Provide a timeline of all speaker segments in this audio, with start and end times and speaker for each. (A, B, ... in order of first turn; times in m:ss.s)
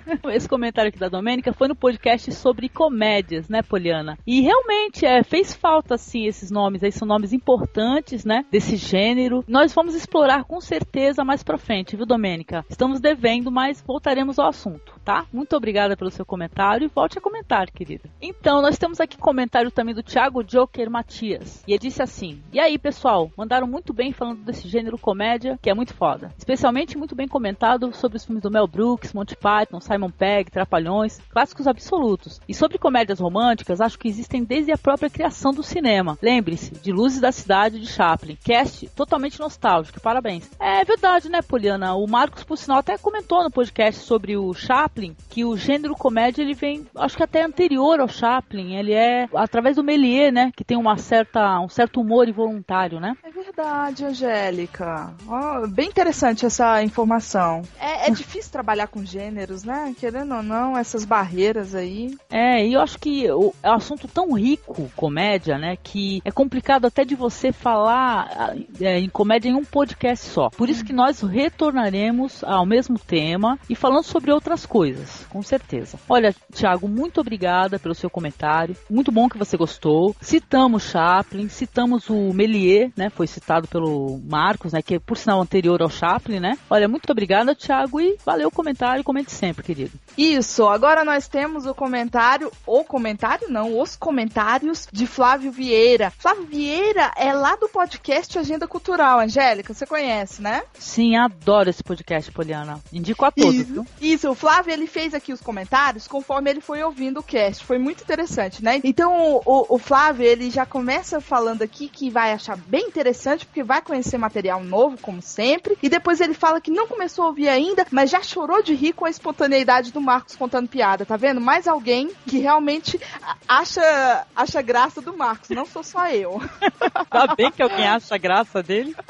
0:00.2-0:53.2 A
0:53.2-1:02.2 B
1:02.3-1:30.0 A
1:30.2-1:40.6 B
1:40.8-1:43.8 A
1:43.4-2:07.5 B
2:07.1-2:09.0 A